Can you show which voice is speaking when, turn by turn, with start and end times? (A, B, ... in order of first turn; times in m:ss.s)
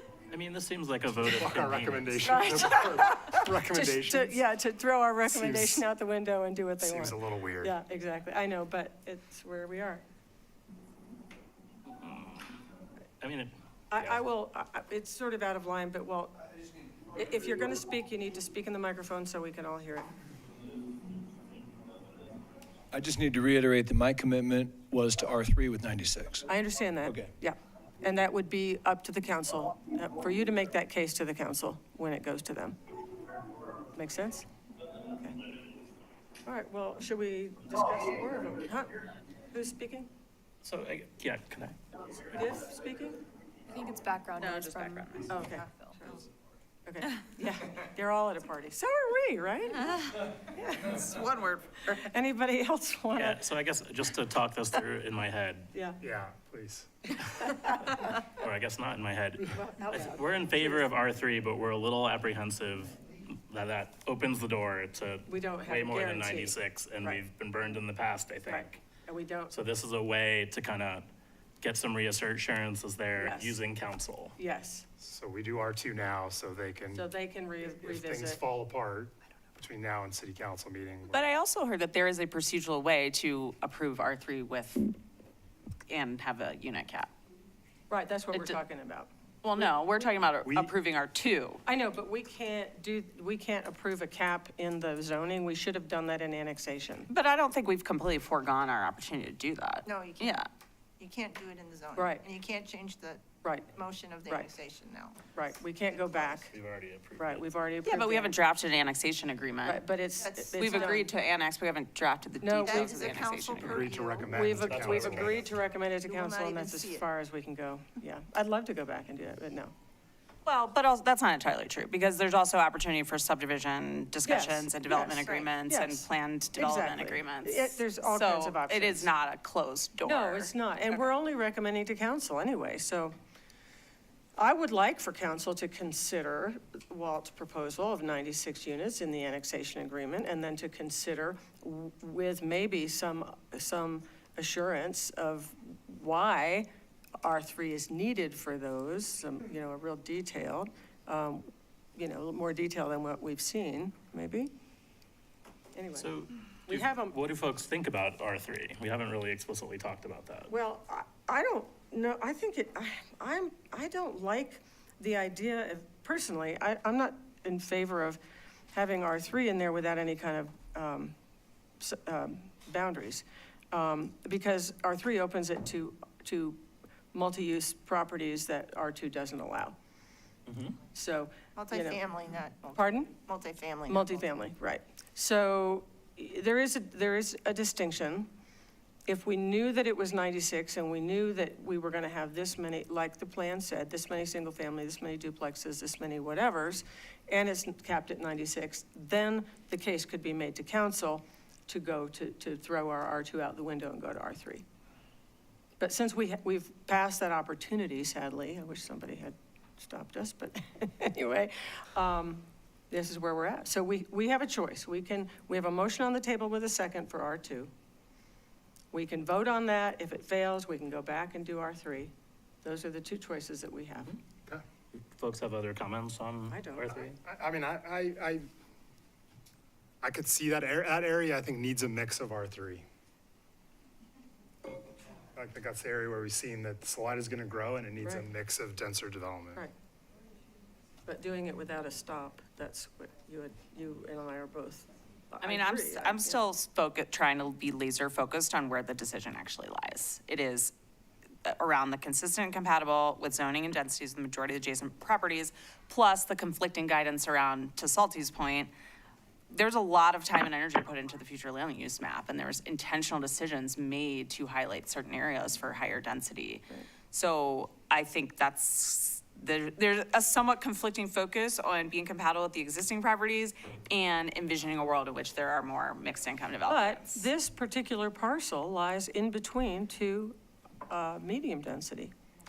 0:00.3-0:02.5 A
0:01.3-0:04.4 B
0:02.2-0:10.0 C
0:05.2-0:05.8 B
0:06.8-0:07.7 B
0:12.0-0:12.6 A
0:13.2-0:14.2 A
0:13.9-0:16.3 C
0:17.1-0:20.1 C
0:22.9-0:26.5 D
0:26.5-0:32.8 C
0:33.9-0:34.5 C
0:36.4-0:40.1 C
0:40.6-0:42.0 A
0:42.3-0:43.2 C
0:43.7-0:45.9 E
0:44.4-0:45.4 F
0:45.3-0:46.2 C
0:46.8-0:51.0 C
0:51.1-0:51.6 G
0:51.2-0:51.5 F
0:51.9-0:53.4 C
0:53.1-0:55.7 A
0:56.0-0:56.9 B
0:57.4-0:57.8 C
0:57.9-1:08.8 A
0:59.5-1:00.9 C
1:05.3-1:07.2 C
1:08.5-1:09.5 C
1:09.5-1:11.1 A
1:11.6-1:14.3 A
1:13.2-1:13.6 C
1:14.4-1:14.8 C
1:15.0-1:17.1 B
1:16.9-1:18.4 C
1:17.7-1:21.2 B
1:21.1-1:24.9 F
1:25.9-1:27.1 F
1:27.9-1:29.1 C
1:28.3-1:28.6 F
1:29.4-1:31.6 F
1:31.6-1:37.1 C
1:37.1-1:40.5 F
1:39.8-1:40.4 G
1:41.0-1:45.2 G
1:42.0-1:42.2 C
1:43.4-1:43.7 C
1:45.3-1:46.5 C
1:46.2-1:47.5 A
1:47.2-1:48.4 C
1:47.8-1:49.8 F
1:49.6-1:51.1 C
1:50.2-1:51.0 G
1:50.6-1:53.9 F
1:52.4-1:53.0 C
1:52.6-1:55.3 G
1:53.6-1:55.5 B
1:54.3-1:59.7 C
1:54.7-1:55.0 A
1:56.1-1:57.0 G
2:00.4-2:10.5 F
2:04.2-2:09.1 C
2:10.0-2:13.1 C
2:14.4-2:26.7 C
2:27.2-2:34.5 C
2:35.7-2:36.1 C
2:36.0-2:40.5 A
2:36.7-2:37.2 C
2:40.5-2:48.2 C
2:48.7-2:51.1 C
2:51.8-2:56.6 C
2:57.1-2:59.8 C
3:00.9-3:02.0 C
3:01.6-3:04.2 G
3:02.7-3:03.1 C
3:03.9-3:08.3 C
3:09.1-3:24.6 C
3:25.8-3:37.7 C
3:38.9-3:42.1 C
3:42.6-3:44.2 C
3:44.9-3:47.2 A
3:46.5-3:47.1 C
3:46.8-3:48.5 B
3:50.0-3:52.8 B
3:55.4-3:59.6 B
4:01.0-4:06.4 C
4:05.4-4:10.7 F
4:11.4-4:18.7 F
4:19.5-4:37.3 F
4:36.7-4:40.4 C
4:40.9-4:42.1 C